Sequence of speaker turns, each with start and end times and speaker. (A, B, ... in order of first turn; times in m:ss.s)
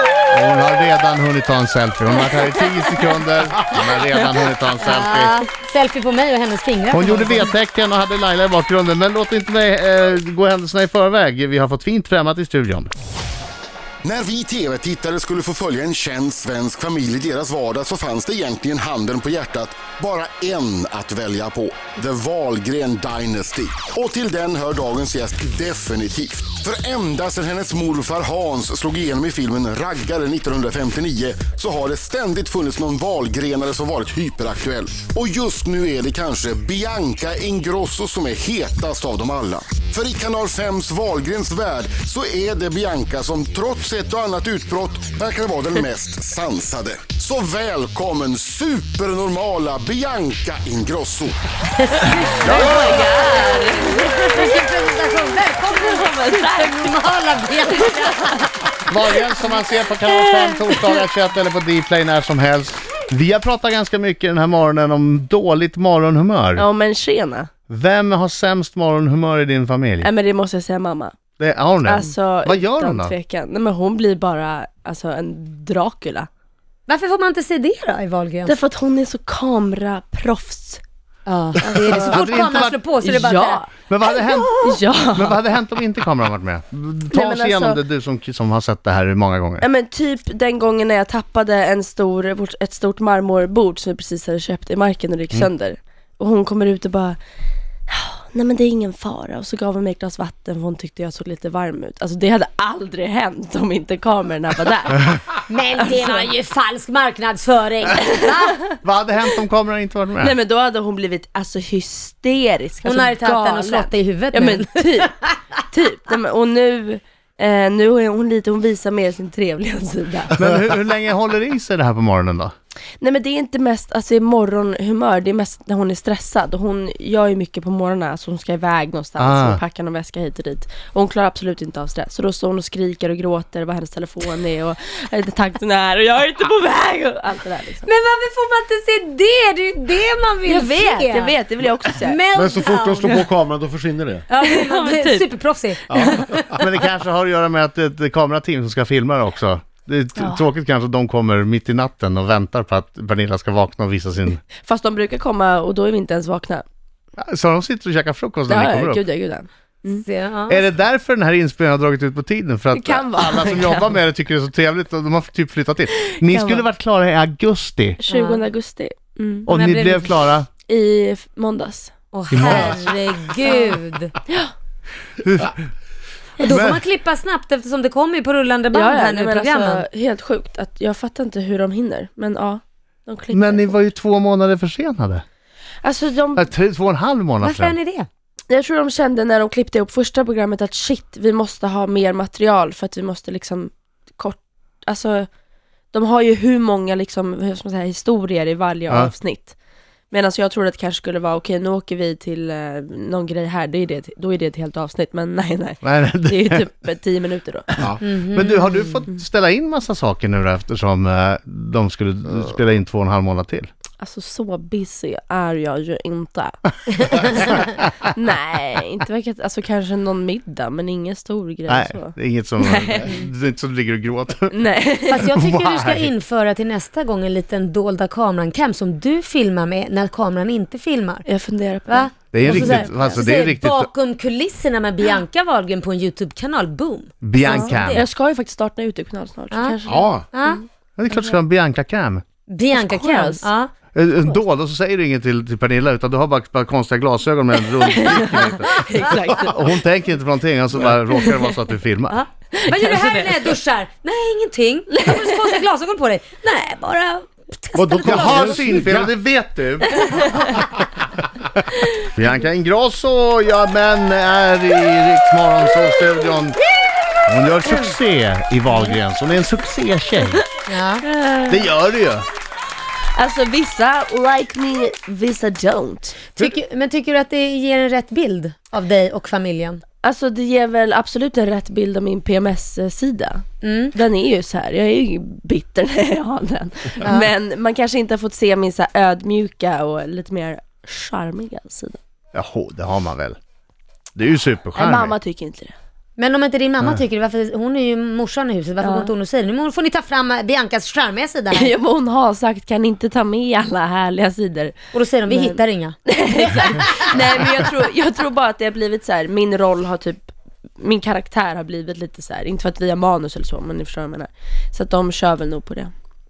0:00.3-0:05.4 A
0:02.2-0:03.0 B
0:04.8-0:07.5 C
0:06.9-0:12.9 A
0:14.0-0:51.4 D
0:51.8-0:53.4 C
0:52.4-0:53.1 A
0:52.4-0:54.6 B
0:54.3-0:59.2 C
0:55.6-0:56.9 B
0:57.7-0:58.5 B
0:58.9-1:06.6 A
1:06.6-1:07.5 B
1:07.7-1:10.1 A
1:10.0-1:11.2 B
1:11.4-1:13.1 A
1:11.8-1:16.3 B
1:16.9-1:18.6 C
1:18.4-1:20.8 B
1:21.2-1:23.6 C
1:21.6-1:22.2 B
1:21.9-1:22.8 A
1:23.0-1:23.7 B
1:23.9-1:24.6 A
1:24.2-1:24.7 C
1:24.6-1:25.4 B
1:25.1-1:29.6 A
1:27.1-1:27.8 B
1:29.6-1:37.2 B
1:37.9-1:46.3 B
1:45.5-1:48.6 C
1:48.0-1:48.7 B
1:48.8-1:50.3 A
1:50.2-1:55.1 B
1:52.8-1:55.4 C
1:55.7-2:00.4 B
2:00.4-2:02.5 A
2:03.0-2:17.9 B
2:09.2-2:09.6 A
2:17.8-2:21.3 C
2:20.4-2:22.2 B
2:22.0-2:23.2 C
2:22.3-2:24.2 E
2:24.3-2:26.8 C
2:24.4-2:25.3 B
2:25.9-2:26.2 E
2:25.9-2:26.2 B
2:26.6-2:34.4 A
2:30.2-2:30.4 B
2:34.6-2:36.6 B
2:37.2-2:39.0 A
2:38.5-2:40.0 B
2:40.0-2:40.7 C
2:40.5-2:48.0 A
2:42.7-2:44.0 B
2:46.0-2:46.7 B
2:48.0-2:49.5 B
2:48.1-2:48.4 C
2:49.5-2:50.1 C
2:49.5-2:50.5 A
2:50.7-2:51.9 B
2:52.1-2:54.1 C
2:52.3-2:52.9 A
2:53.4-2:54.5 B
2:55.2-2:55.7 A
2:56.4-2:59.8 C
2:56.4-2:56.8 A
2:58.7-3:03.8 B
3:03.3-3:05.2 A
3:05.8-3:06.5 B
3:06.4-3:07.8 A
3:07.4-3:08.1 C
3:08.5-3:15.3 B
3:15.9-3:19.5 B
3:20.1-3:27.6 B
3:25.8-3:26.6 A
3:28.0-3:29.0 C
3:28.0-3:33.7 A
3:34.0-3:43.3 B
3:41.7-3:44.5 A
3:44.5-3:45.3 B
3:45.1-3:51.2 C
3:45.1-3:46.1 A
3:51.2-3:53.2 B
3:51.9-3:58.0 C
3:52.3-3:53.9 A
3:57.2-3:58.0 A
3:57.4-4:00.6 B
3:59.8-4:00.2 E
4:00.3-4:01.4 C
4:01.0-4:02.2 A
4:02.5-4:03.7 C
4:02.7-4:03.5 B
4:03.9-4:12.2 A
4:07.8-4:09.7 B
4:11.1-4:11.5 B
4:12.1-4:18.8 C
4:12.6-4:13.5 B
4:15.0-4:15.5 B
4:17.8-4:19.1 E
4:18.0-4:20.2 A
4:20.0-4:20.6 B
4:22.0-4:26.6 A
4:27.3-4:30.4 A
4:27.6-4:28.0 C
4:30.7-4:31.0 C
4:31.0-4:31.7 B
4:31.5-4:32.2 A
4:33.1-4:36.2 B
4:36.3-4:39.8 C
4:40.0-4:52.0 B
4:43.6-4:43.9 C
4:52.3-4:53.4 A
4:54.2-4:55.1 A
4:54.8-4:55.7 B
4:56.2-5:01.7 C
4:58.8-4:59.1 B
5:01.5-5:15.9 B
5:04.9-5:07.2 C